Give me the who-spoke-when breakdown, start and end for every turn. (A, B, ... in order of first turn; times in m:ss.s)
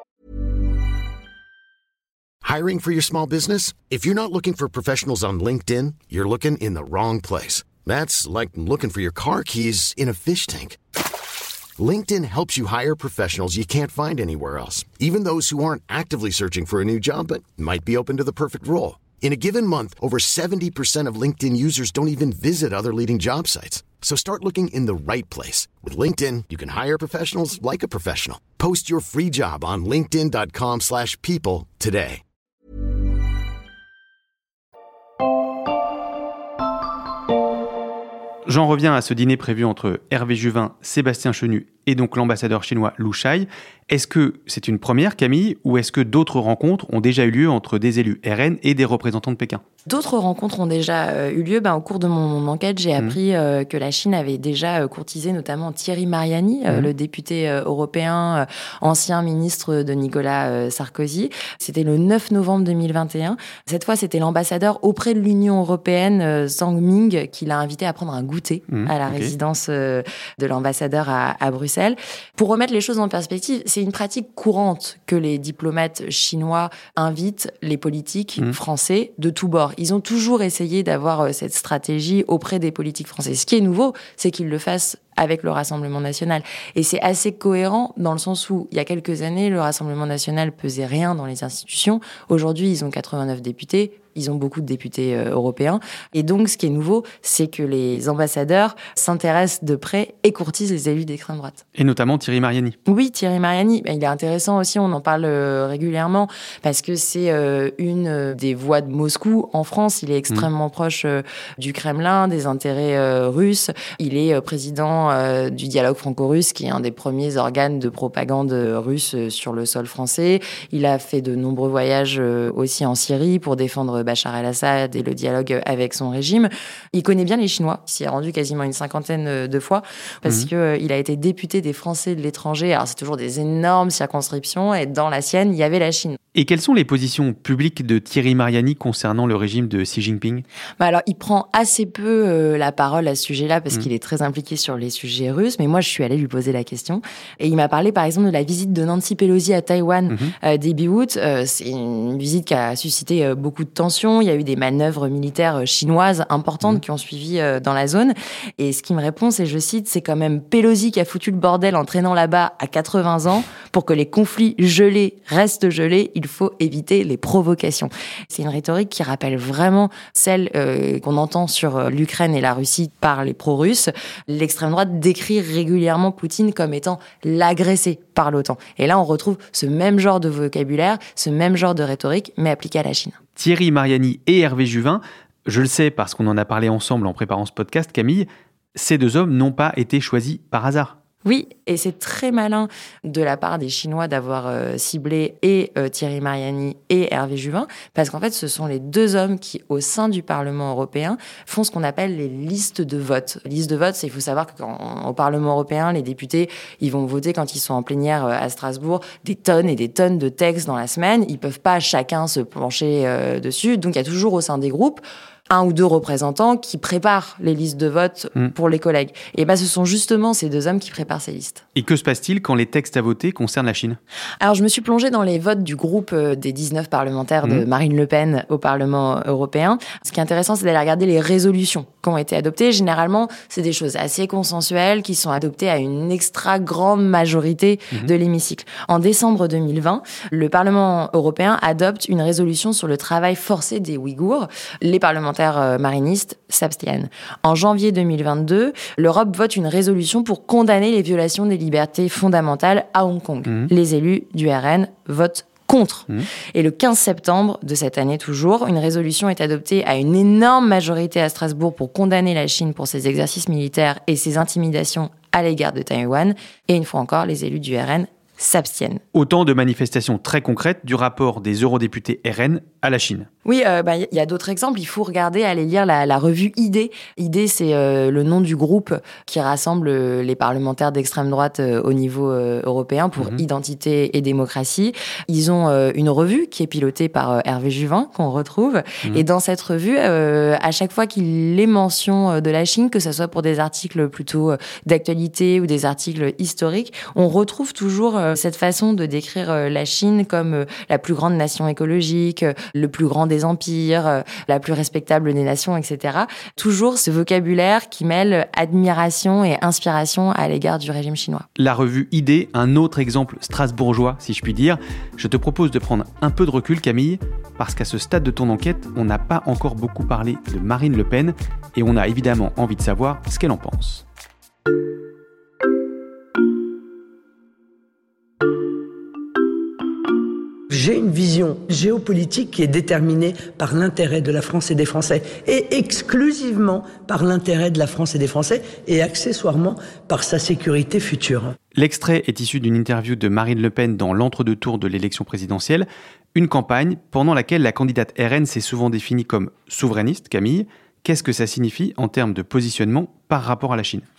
0:02.4-0:10.8 A
0:11.8-0:32.2 A
0:38.5-0:49.6 B
0:49.8-1:41.6 C
1:08.7-1:09.3 B
1:41.8-1:42.7 B
1:42.8-2:16.2 C
2:16.3-2:20.4 B
2:20.8-3:03.2 C
3:03.4-3:11.0 B
3:11.2-3:41.6 C
3:41.7-3:44.0 B
3:44.4-4:29.0 C
4:29.1-4:33.3 B
4:33.4-5:11.4 C
4:43.2-4:43.4 B
5:11.6-5:24.0 B
5:30.7-5:41.5 D
5:41.8-5:54.0 B